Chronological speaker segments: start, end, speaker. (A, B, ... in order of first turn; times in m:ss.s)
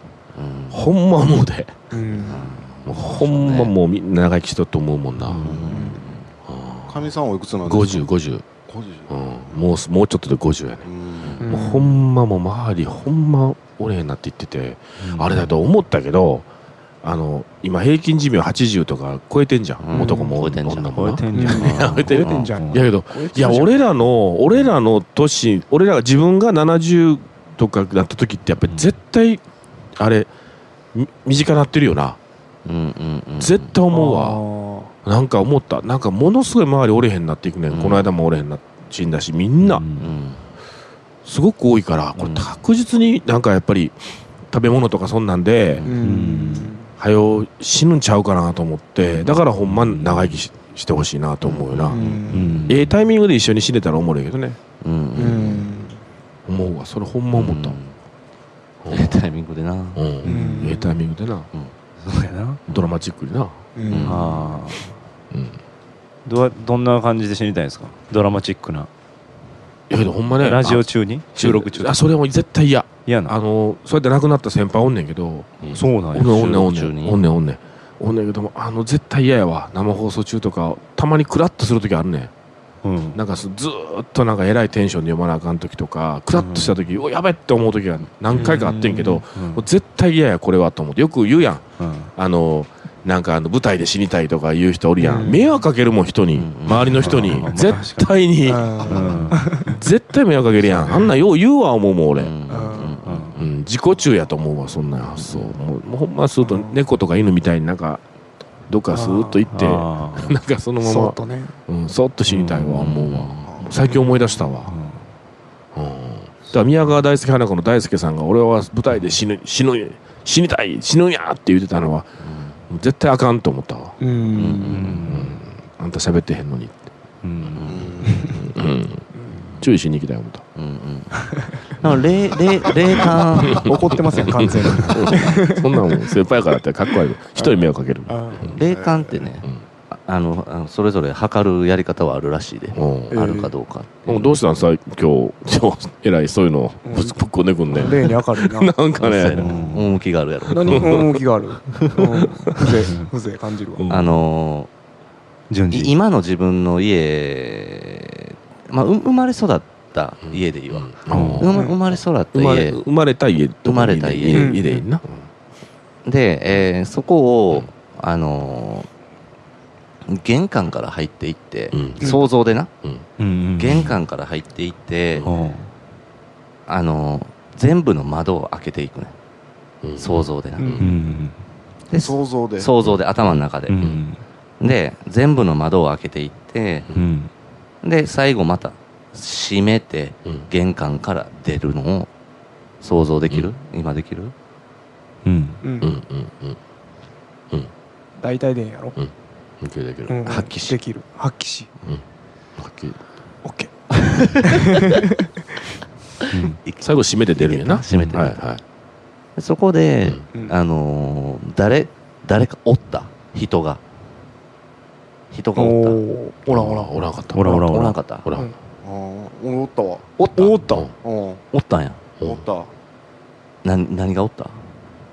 0:00.3-0:00.8 A
0:00.7-0:01.7 B
0:01.9-0:02.5 C
0:02.2-0:03.7 A
0:02.8-0:05.4 B
0:05.2-0:05.9 D
0:05.4-0:06.2 A
0:05.5-0:05.9 E
0:05.7-0:06.0 C
0:06.4-0:07.1 B
0:06.9-0:08.0 E
0:07.6-0:08.4 B
0:08.6-0:09.6 E
0:09.1-0:10.9 B
0:10.8-0:11.5 E
0:11.4-0:16.4 B
0:11.4-0:12.0 C
0:15.0-0:15.5 D
0:17.0-0:29.4 B
0:19.8-0:22.5 A
0:19.9-0:20.3 C
0:20.9-0:22.9 D
0:21.3-0:23.8 C
0:30.0-0:30.3 B
0:30.9-0:32.2 B
0:32.6-0:33.7 A
0:33.4-0:34.4 B
0:33.9-0:34.9 C
0:35.0-0:39.8 B
0:37.7-0:38.1 A
0:39.6-0:40.1 D
0:40.0-0:40.4 A
0:41.2-0:44.0 B
0:42.2-0:42.5 A
0:44.5-0:45.9 B
0:45.8-0:46.9 C
0:46.0-0:46.8 D
0:47.0-0:52.0 B
0:49.6-0:50.4 D
0:51.4-0:52.2 A
0:51.9-0:52.7 C
0:52.3-0:52.9 D
0:52.7-0:54.6 B
0:54.8-0:55.8 A
0:55.2-0:56.0 C
0:56.5-0:57.8 B
0:57.3-0:57.9 A
0:58.8-0:59.2 B
0:58.9-1:00.0 A
0:59.9-1:01.5 B
1:00.2-1:01.0 C
1:02.0-1:02.6 D
1:02.7-1:03.5 B
1:03.8-1:04.2 C
1:03.9-1:04.7 A
1:04.0-1:04.9 D
1:05.3-1:05.6 B
1:06.2-1:08.9 D
1:09.9-1:22.3 B
1:10.4-1:12.1 D
1:13.0-1:13.3 D
1:15.7-1:16.4 D
1:16.1-1:17.2 A
1:22.8-1:23.2 D
1:23.1-1:42.3 B
1:26.4-1:26.8 D
1:28.3-1:29.2 C
1:28.3-1:28.6 D
1:29.3-1:29.6 D
1:31.8-1:32.1 D
1:35.0-1:35.5 C
1:36.3-1:37.5 A
1:37.0-1:38.1 D
1:38.4-1:39.7 C
1:38.9-1:39.6 D
1:40.7-1:41.0 A
1:42.2-1:43.5 A
1:42.5-1:43.0 C
1:43.0-1:43.4 D
1:43.4-1:48.0 B
1:45.2-1:45.5 A
1:46.4-1:46.8 C
1:48.7-1:54.7 B
1:48.9-1:49.5 C
1:49.5-1:50.4 D
1:50.8-1:51.5 C
1:52.4-1:52.7 D
1:52.6-1:53.5 A
1:53.5-1:53.8 E
1:54.7-1:55.0 D
1:55.7-2:02.1 B
2:02.2-2:02.6 A
2:02.7-2:04.0 B
2:04.0-2:05.0 C
2:04.3-2:05.2 A
2:04.7-2:05.4 D
2:05.1-2:06.8 B
2:07.2-2:07.6 D
2:07.6-2:08.0 A
2:07.6-2:08.4 E
2:08.0-2:08.4 C
2:08.3-2:09.0 B
2:09.1-2:09.5 C
2:09.6-2:10.4 B
2:10.6-2:15.0 A
2:13.4-2:16.1 C
2:13.5-2:18.5 B
2:17.3-2:18.5 C
2:18.5-2:24.4 A
2:18.6-2:19.3 E
2:22.7-2:23.2 B
2:23.1-2:23.5 C
2:24.0-2:29.5 B
2:26.8-2:27.2 C
2:27.7-2:28.7 C
2:29.0-2:31.1 A
2:29.4-2:29.9 D
2:30.5-2:33.9 C
2:30.6-2:31.2 B
2:33.8-2:34.2 B
2:33.9-2:34.7 A
2:35.5-2:35.9 D
2:35.7-2:42.8 A
2:40.3-2:41.5 B
2:41.1-2:41.5 D
2:41.5-2:41.8 C
2:42.3-2:45.2 B
2:43.6-2:44.6 A
2:44.3-2:44.8 C
2:46.0-2:48.9 A
2:50.0-2:52.7 A
2:51.7-2:52.1 B
2:53.2-2:54.0 D
2:53.6-2:55.3 A
2:55.2-2:55.7 D
2:56.7-2:59.1 A
2:59.8-3:00.9 B
3:00.0-3:00.8 A
3:00.6-3:00.9 C
3:00.8-3:01.4 D
3:01.9-3:03.8 A
3:01.9-3:02.7 E
3:02.8-3:04.0 B
3:03.7-3:04.2 D
3:04.6-3:06.9 A
3:06.9-3:07.3 D
3:07.8-3:12.1 A
3:12.8-3:14.3 A
3:15.2-3:15.6 D
3:15.6-3:15.9 C
3:15.8-3:16.6 B
3:18.2-3:19.0 C
3:19.0-3:20.2 B
3:20.1-3:21.7 C
3:20.2-3:20.8 A
3:22.6-3:23.0 B
3:23.4-3:23.7 C
3:24.3-3:25.2 C
3:26.3-3:26.6 D
3:26.6-3:28.4 A
3:26.8-3:28.6 B
3:27.9-3:28.2 D
3:29.4-3:33.8 A
3:35.3-3:36.0 A
3:35.6-3:36.9 C
3:36.4-3:37.6 B
3:37.3-3:38.0 D
3:37.4-3:38.3 A
3:38.2-3:38.5 B
3:38.8-3:40.1 E
3:40.2-3:40.8 A
3:40.3-3:40.8 C
3:41.0-3:41.4 E
3:41.5-3:42.0 A
3:42.2-3:42.7 E
3:43.6-3:44.6 A